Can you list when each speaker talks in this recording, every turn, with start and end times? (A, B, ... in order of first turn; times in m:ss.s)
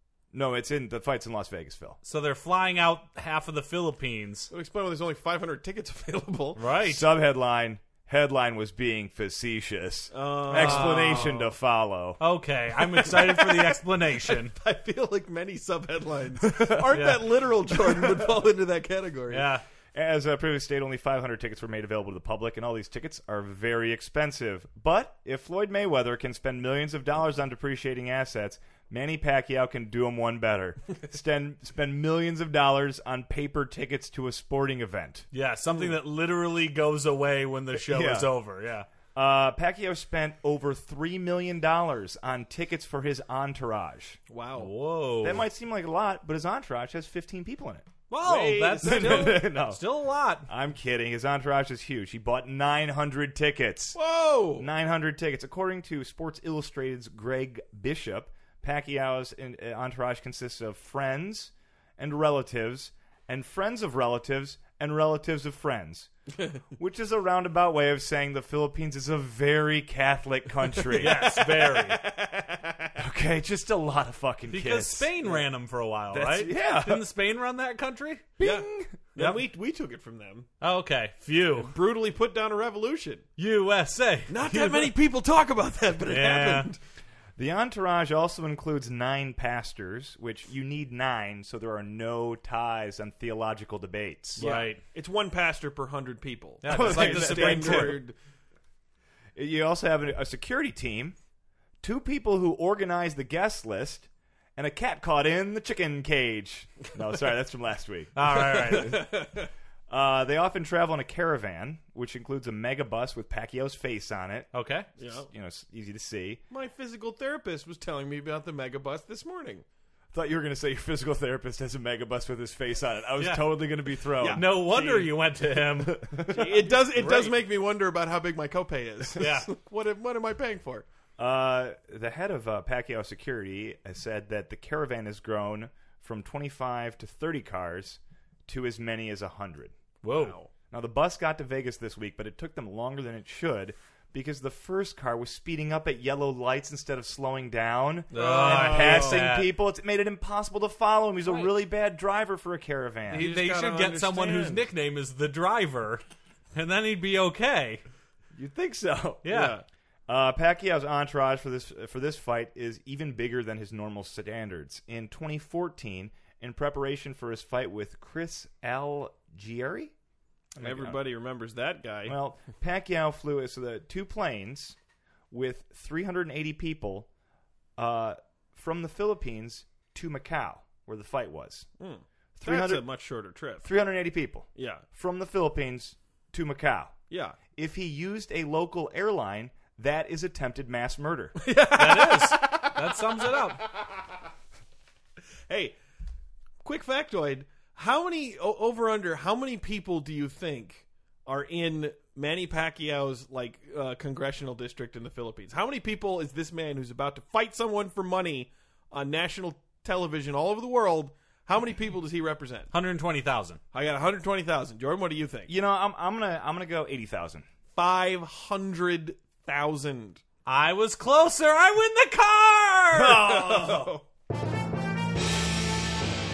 0:00.3-0:02.0 A
0:02.0-0:04.5 B
0:04.5-0:06.6 C
0:06.6-0:07.0 B
0:06.9-0:12.2 A
0:10.1-0:11.5 C
0:10.5-0:11.3 B
0:12.2-0:14.5 B
0:12.8-0:19.5 C
0:16.4-0:16.9 A
0:16.9-0:17.2 B
0:17.9-0:18.3 A
0:19.3-0:19.6 B
0:19.9-0:35.3 A
0:35.3-0:38.9 B
0:37.9-0:38.3 A
0:39.1-0:44.2 A
0:44.3-0:44.7 C
0:44.6-0:45.4 B
0:45.2-0:47.9 A
0:48.1-0:50.5 B
0:48.2-0:49.4 C
0:48.8-0:49.8 A
0:50.5-0:54.0 A
0:54.0-0:54.7 C
0:54.6-1:06.1 A
1:06.8-1:11.3 A
1:10.9-1:13.0 C
1:11.0-1:12.0 B
1:13.0-1:15.1 A
1:14.5-1:18.3 B
1:16.1-1:17.0 A
1:18.4-1:19.0 A
1:18.4-1:20.5 C
1:20.6-1:21.7 B
1:21.6-1:23.2 C
1:23.4-1:24.9 B
1:24.3-1:26.8 C
1:26.1-1:26.7 B
1:27.4-1:34.4 A
1:34.4-1:34.8 B
1:34.4-1:38.2 C
1:36.6-1:38.0 B
1:36.7-1:38.0 A
1:39.4-1:41.2 A
1:41.8-1:49.1 A
1:48.2-1:49.0 B
1:48.5-1:49.5 C
1:49.9-1:54.5 A
1:54.5-1:54.9 B
1:55.0-1:55.3 C
1:55.0-1:56.4 A
1:56.5-1:59.6 C
2:00.1-2:04.4 A
2:03.2-2:03.5 B
2:04.2-2:05.1 C
2:04.3-2:06.0 B
2:05.8-2:07.3 A
2:06.3-2:10.8 C
2:09.2-2:09.5 B
2:11.2-2:19.7 A
2:20.0-2:20.4 B
2:20.1-2:20.5 C
2:20.7-2:33.3 A
2:28.1-2:29.3 C
2:28.1-2:29.5 B
2:33.1-2:36.0 B
2:33.1-2:34.6 C
2:36.5-2:37.8 B
2:38.4-2:39.3 A
2:39.2-2:39.6 B
2:39.3-2:39.6 C
2:40.1-2:49.9 A
2:50.6-2:51.0 A
2:50.6-2:52.2 C
2:52.1-2:54.8 A
2:55.3-2:57.1 A
2:57.8-3:01.7 A
3:01.8-3:03.7 C
3:02.4-3:02.8 A
3:03.6-3:07.0 A
3:04.6-3:04.8 C
3:07.1-3:07.4 C
3:07.6-3:11.4 A
3:11.4-3:13.9 C
3:11.7-3:13.6 B
3:15.5-3:15.8 C
3:16.6-3:32.7 C
3:32.7-3:33.6 B
3:33.7-3:35.5 C
3:35.5-3:37.4 A
3:37.8-3:40.2 C
3:40.5-3:43.2 B
3:43.0-3:43.9 A
3:43.1-3:44.0 C